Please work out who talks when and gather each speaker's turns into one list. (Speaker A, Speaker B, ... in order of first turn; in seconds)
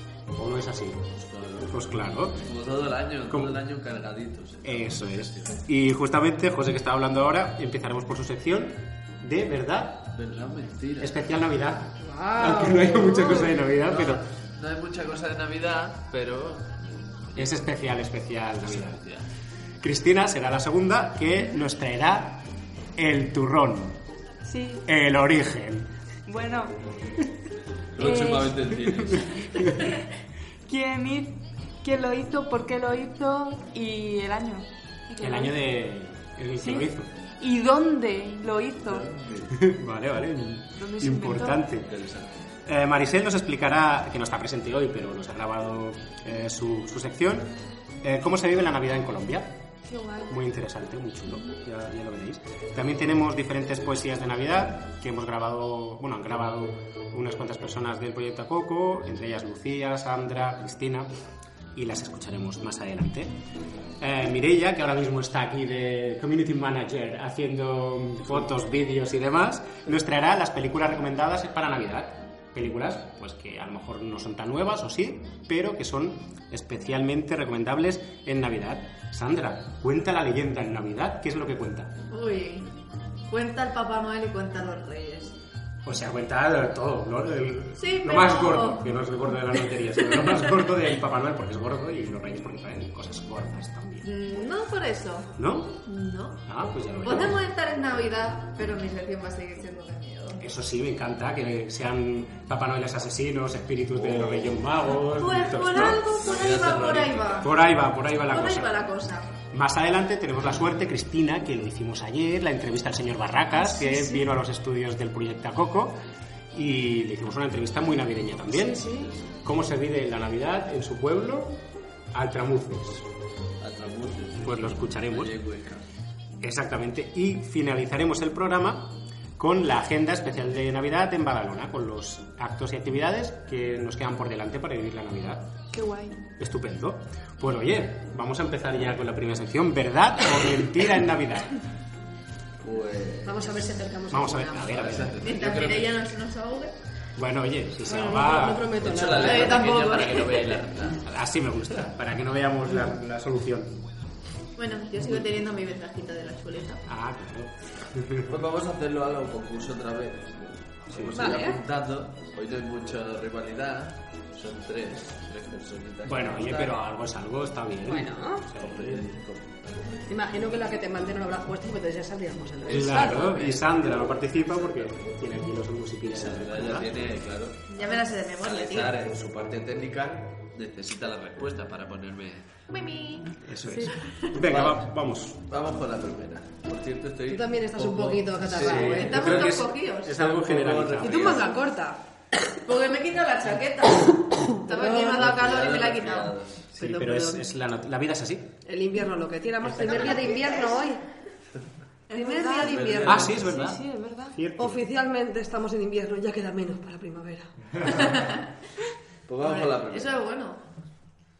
Speaker A: 0.3-1.1, 1.6-2.4, 3.3-3.6, 4.6-10.1, 11.0-14.2, 17.4-19.0, 19.8-22.4, 23.0-24.0, 24.9-25.9, 28.9-29.2, 35.2-37.1, 39.5-41.9, 42.6-49.5, 50.3-61.1, 61.7-63.3, 64.0-81.9, 85.8-94.1, 95.4-95.8, 96.4-97.3, 100.4-106.0, 107.4-108.8, 109.5-116.0, 116.5-123.0, 124.4-125.3, 126.4-135.5, 136.4-141.5, 144.1-145.2, 147.2-148.8, 151.0-153.7, 156.8-158.4, 160.9-161.4, 166.0-169.2, 172.7-176.9, 183.4-185.4, 188.5-191.4, 196.8-198.5, 199.6-200.2, 203.0-203.8, 204.3-204.8
Speaker B: 1.2-1.7, 2.4-5.6, 10.1-11.2, 13.7-17.6, 18.6-19.3, 27.9-29.5, 38.8-39.6, 41.8-42.3, 104.0-104.6, 106.0-107.5, 123.6-125.9, 142.6-143.6, 144.7-146.0, 148.8-151.0, 158.3-166.8, 168.6-170.0, 172.6-175.1, 176.1-182.4, 184.4-184.8, 185.5-189.5, 190.1-191.6, 194.9-196.7, 202.7-203.4, 209.3-210.2
Speaker C: 12.0-13.4, 143.2-144.7, 147.8-149.6, 161.1-161.6, 167.9-168.4, 170.1-173.3, 187.3-189.1, 191.0-192.0, 194.7-195.2, 196.7-197.4, 198.6-201.0, 202.1-203.3, 204.6-207.5
Speaker D: 24.4-24.8, 26.3-26.7, 28.0-28.5, 30.7-35.6, 36.6-39.1, 40.8-41.6, 49.9-50.3, 113.5-114.3, 118.7-119.1, 135.7-136.2, 202.1-204.3
Speaker E: 82.1-82.7, 83.3-85.3, 87.8-88.9, 94.0-96.4, 97.0-100.4, 105.0-107.5, 108.3-109.3, 145.2-146.7, 149.2-150.5, 154.6-156.8, 177.7-178.9, 182.7-183.3, 188.9-190.2, 192.6-196.3, 199.8-200.7, 207.8-208.4, 209.4-210.6